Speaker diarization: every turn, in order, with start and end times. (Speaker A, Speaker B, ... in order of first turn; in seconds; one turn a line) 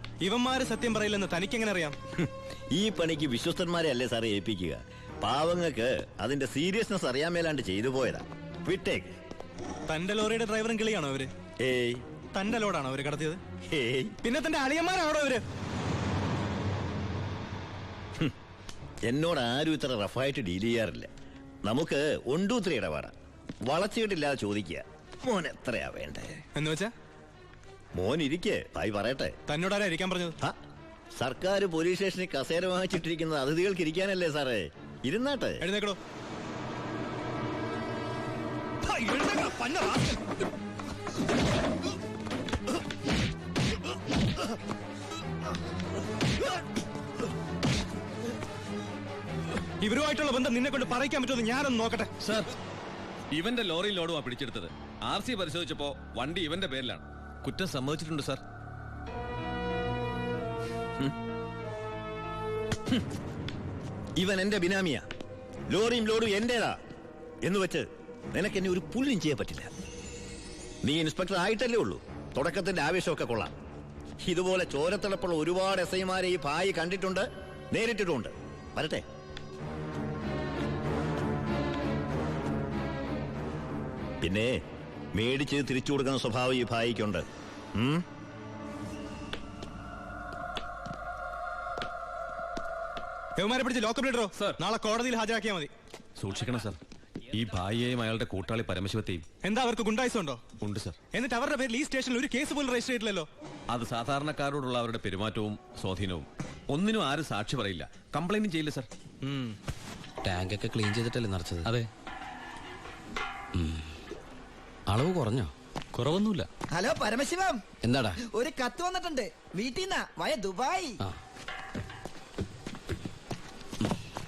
Speaker A: 0.2-2.0
Speaker B: 2.2-9.1
Speaker A: 9.9-11.3
Speaker B: 11.6-12.0
Speaker A: 12.3-13.4
Speaker B: 13.7-14.1
Speaker A: 14.2-15.4
Speaker B: 19.1-21.1
Speaker B: 21.6-23.1
Speaker B: 23.7-26.4
Speaker A: 26.6-26.9
Speaker B: 28.0-29.3
Speaker A: 29.5-30.4
Speaker B: 31.2-35.6
Speaker A: 35.6-36.0
Speaker A: 38.9-40.0
Speaker A: 49.8-52.1
Speaker C: 52.2-52.5
Speaker C: 53.3-58.4
Speaker B: 64.2-65.0
Speaker B: 65.7-66.8
Speaker B: 67.4-69.7
Speaker B: 70.8-73.5
Speaker B: 74.2-79.0
Speaker B: 84.2-84.5
Speaker B: 85.2-87.2
Speaker B: 87.8-88.0
Speaker A: 93.4-95.7
Speaker C: 96.2-96.8
Speaker C: 97.3-99.2
Speaker A: 99.4-100.4
Speaker C: 100.6-101.0
Speaker A: 101.1-103.3
Speaker C: 103.7-108.9
Speaker A: 109.2-109.6
Speaker D: 110.2-111.8
Speaker D: 113.5-113.9
Speaker D: 114.9-115.5
Speaker C: 116.0-116.5
Speaker E: 116.7-117.6
Speaker D: 117.8-118.2
Speaker E: 118.3-120.9